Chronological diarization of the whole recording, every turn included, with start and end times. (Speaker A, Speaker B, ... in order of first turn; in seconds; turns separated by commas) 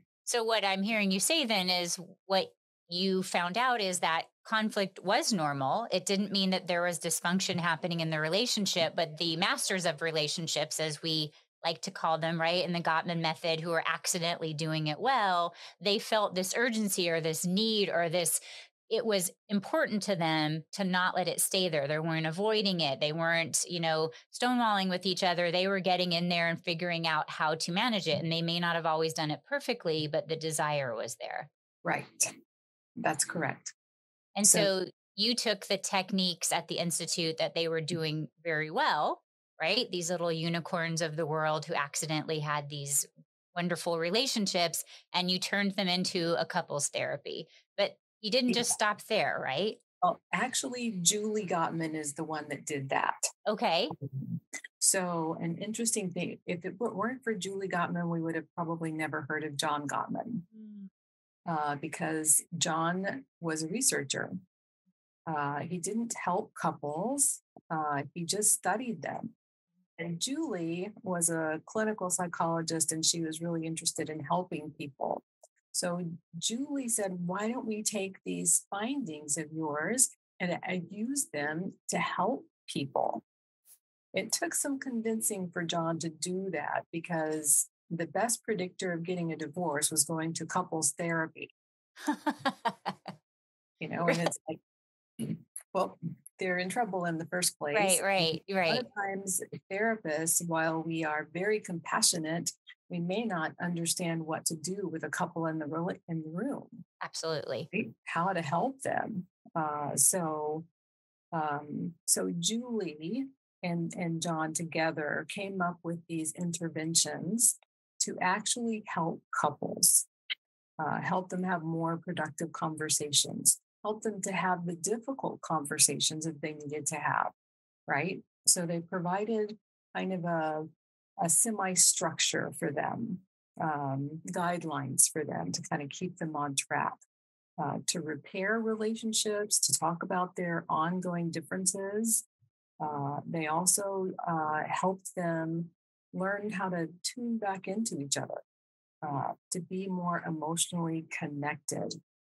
Speaker A: 0.3-31.5, Speaker B: 31.8-32.3, Speaker B: 33.0-33.8, Speaker A: 34.4-49.8, Speaker B: 34.5-34.7, Speaker B: 48.5-48.7, Speaker B: 50.0-53.2, Speaker A: 53.5-53.9, Speaker B: 54.0-60.5, Speaker B: 61.5-64.3, Speaker B: 65.3-69.3, Speaker B: 70.0-83.2, Speaker B: 84.1-91.5, Speaker A: 92.0-93.1, Speaker B: 93.8-94.6, Speaker B: 95.2-106.8, Speaker A: 97.7-98.8, Speaker A: 107.0-107.7, Speaker B: 107.7-110.7, Speaker B: 111.3-120.1, Speaker B: 120.8-127.3, Speaker B: 127.9-130.7, Speaker B: 131.2-137.0, Speaker B: 137.6-142.2, Speaker B: 142.8-148.4, Speaker B: 149.0-151.9